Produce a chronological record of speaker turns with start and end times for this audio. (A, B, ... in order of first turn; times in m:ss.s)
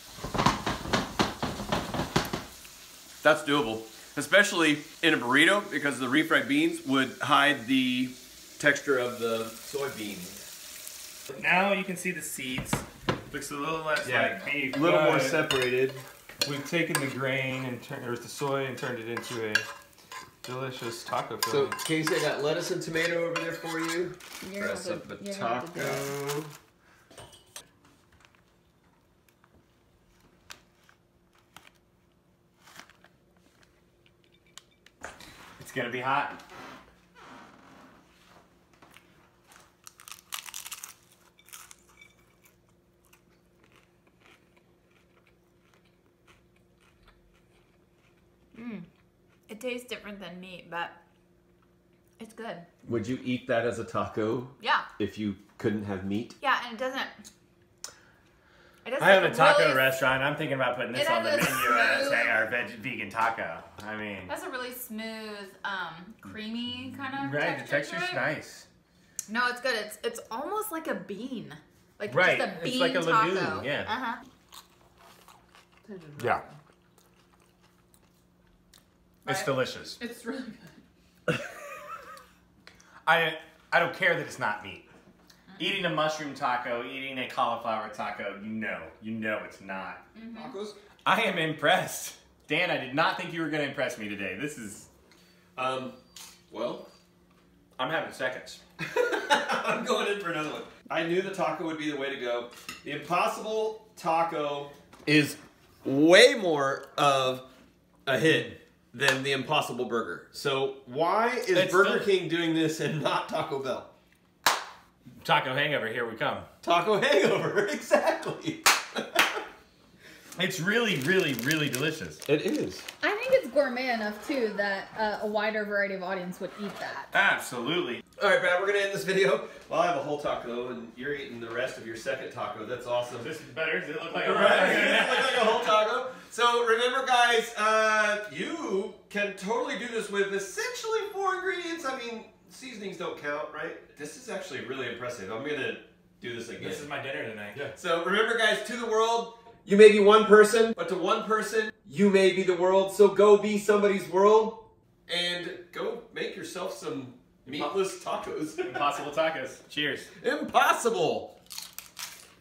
0:03.2-0:10.4 A
0:11.3-0:15.4 B
0:14.0-0:16.0 A
0:16.4-0:19.6 B
0:20.4-0:21.8 B
0:21.5-0:26.5 A
0:24.4-0:26.1 C
0:35.6-0:36.4 B
0:48.5-0:48.9 C
0:49.5-0:51.0 C
0:52.2-0:52.7 C
0:52.8-0:56.4 A
0:54.6-0:54.8 C
0:56.4-0:57.2 C
0:58.8-0:59.9 C
0:59.0-1:04.3 B
1:00.9-1:02.4 C
1:04.3-1:08.3 C
1:07.2-1:08.6 B
1:09.3-1:14.2 C
1:12.0-1:13.9 B
1:15.8-1:16.6 C
1:16.2-1:16.4 B
1:19.2-1:20.8 C
1:19.2-1:20.0 B
1:23.0-1:24.9 B
1:25.6-1:30.0 B
1:30.1-1:30.5 C
1:30.3-1:30.8 A
1:31.0-1:34.9 B
1:35.6-1:36.0 A
1:36.5-1:36.9 A
1:37.8-1:38.6 B
1:38.8-1:47.5 A
1:48.0-1:53.9 A
1:51.5-1:52.1 B
1:55.2-1:56.5 B
1:56.6-1:59.4 A
2:00.4-2:02.2 B
2:02.2-2:02.9 A
2:03.0-2:07.1 C
2:07.1-2:08.0 B
2:08.2-2:13.3 A
2:13.2-2:15.6 B
2:14.2-2:26.9 A
2:26.6-2:27.7 B
2:27.7-2:38.9 A
2:37.4-2:37.7 B
2:38.6-2:40.1 B
2:40.2-2:41.3 A